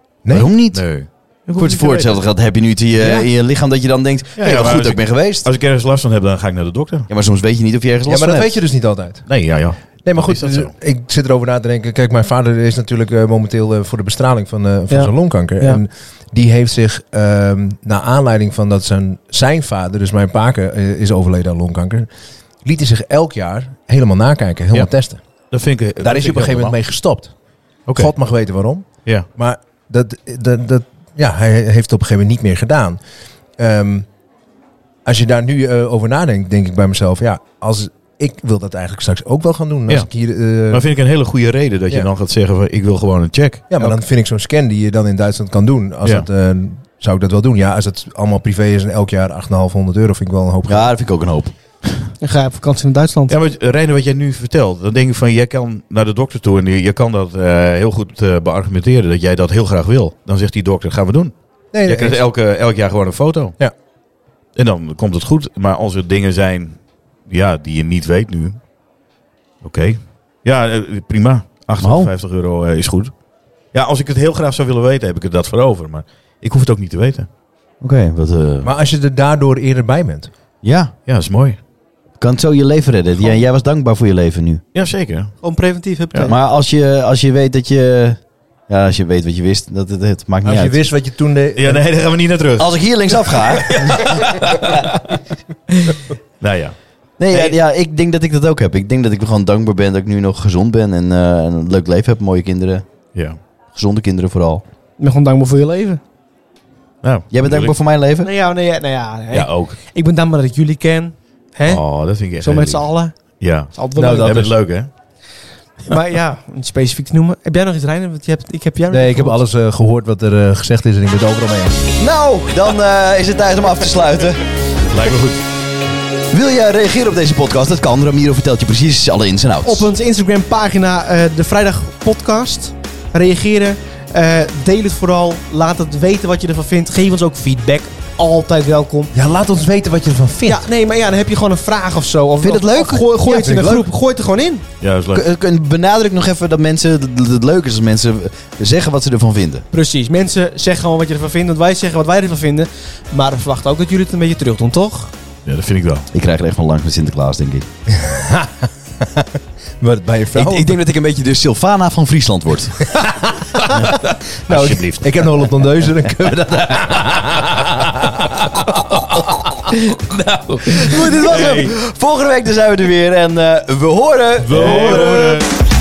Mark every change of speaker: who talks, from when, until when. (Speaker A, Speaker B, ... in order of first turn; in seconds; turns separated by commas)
Speaker A: 0.2-0.5, Speaker B: 0.3-0.8, Speaker C: 0.7-2.2, Speaker B: 1.5-5.5, Speaker A: 3.0-3.3, Speaker C: 4.4-7.1, Speaker B: 7.1-8.6, Speaker A: 8.1-9.3, Speaker C: 9.3-10.7, Speaker A: 10.0-22.1, Speaker D: 14.9-15.8, Speaker A: 22.6-25.2, Speaker C: 25.5-26.8, Speaker A: 26.0-27.3, Speaker C: 27.9-28.1, Speaker A: 27.9-33.0, Speaker A: 33.6-34.1, Speaker A: 35.0-40.8, Speaker C: 40.7-44.0, Speaker A: 43.7-50.9, Speaker B: 50.7-51.5, Speaker D: 52.2-53.4, Speaker C: 53.3-61.3, Speaker A: 61.7-62.2, Speaker C: 61.8-63.6, Speaker C: 64.5-68.6, Speaker C: 69.6-73.1, Speaker B: 71.8-72.1, Speaker C: 73.7-77.3, Speaker B: 77.8-78.7, Speaker A: 78.6-80.3, Speaker B: 80.6-80.9, Speaker C: 81.0-81.6, Speaker B: 82.2-84.6, Speaker C: 84.7-85.4, Speaker D: 85.4-86.3, Speaker B: 86.3-90.8, Speaker A: 90.4-91.8, Speaker C: 91.5-95.0, Speaker B: 92.6-94.1, Speaker C: 95.7-96.8, Speaker B: 97.2-102.8, Speaker B: 103.7-104.6, Speaker D: 105.0-106.0, Speaker C: 107.0-107.7, Speaker B: 107.3-108.3, Speaker D: 108.2-111.8, Speaker C: 109.3-109.8, Speaker C: 111.6-114.9, Speaker D: 112.4-114.5, Speaker A: 114.0-114.5, Speaker D: 115.9-119.4, Speaker A: 118.9-121.9, Speaker B: 122.0-124.4, Speaker C: 124.9-125.4, Speaker B: 126.3-129.9, Speaker D: 129.6-139.1, Speaker A: 139.1-140.6, Speaker D: 140.4-144.6, Speaker B: 142.4-143.1, Speaker A: 143.2-143.8, Speaker C: 144.8-145.2, Speaker B: 145.1-149.7, Speaker D: 149.7-155.1, Speaker C: 155.4-156.1, Speaker B: 156.1-157.7, Speaker A: 157.9-160.8, Speaker B: 160.3-162.8, Speaker A: 162.8-163.6, Speaker C: 163.7-165.3, Speaker A: 164.5-169.7, Speaker C: 170.2-171.7, Speaker B: 170.7-175.4, Speaker C: 174.4-175.4